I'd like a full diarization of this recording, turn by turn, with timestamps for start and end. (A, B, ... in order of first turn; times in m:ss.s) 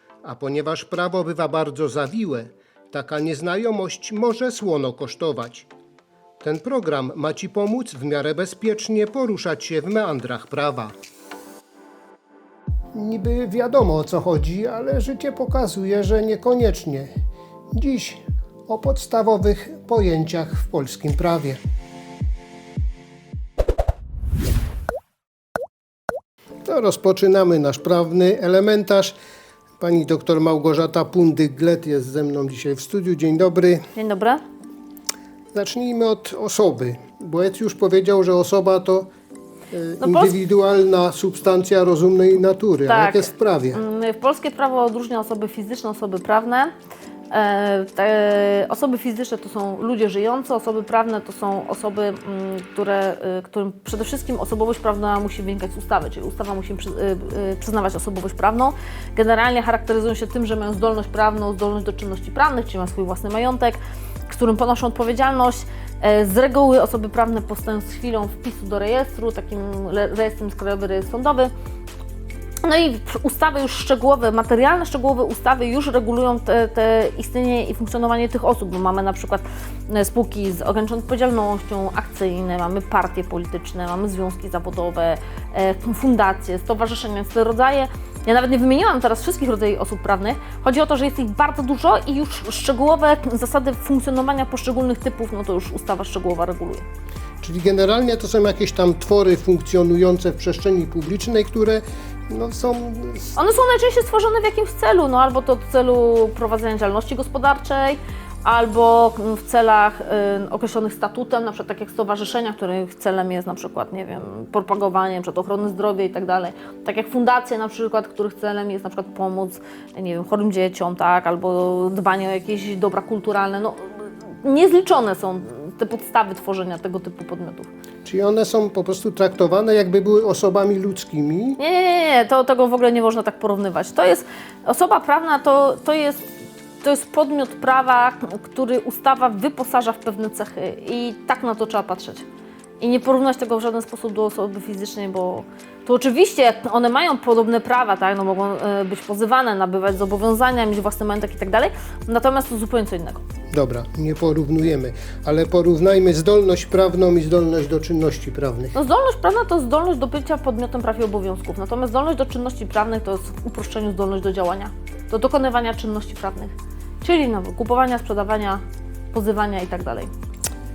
0:00.2-0:05.7 A
0:06.4-0:10.9 A
0:12.9-0:17.1 A
0:17.7-0:21.6 A
0:26.6-0:29.2 A
0:29.8-0:33.9 A
0:34.0-0:34.4 B
0:35.5-0:39.1 A
0:39.7-0:43.8 A
0:40.0-0:40.4 B
0:42.9-0:46.7 B
0:47.3-1:11.5 B
1:12.6-1:36.8 B
1:37.4-1:43.3 A
1:43.4-2:03.8 B
2:04.4-2:07.7 B
2:08.0-2:11.6 A
2:11.6-2:16.3 B
2:16.8-2:22.2 B
2:22.8-2:33.2 B
2:33.5-2:38.8 A
2:38.8-2:48.6 B
2:49.1-2:50.1 B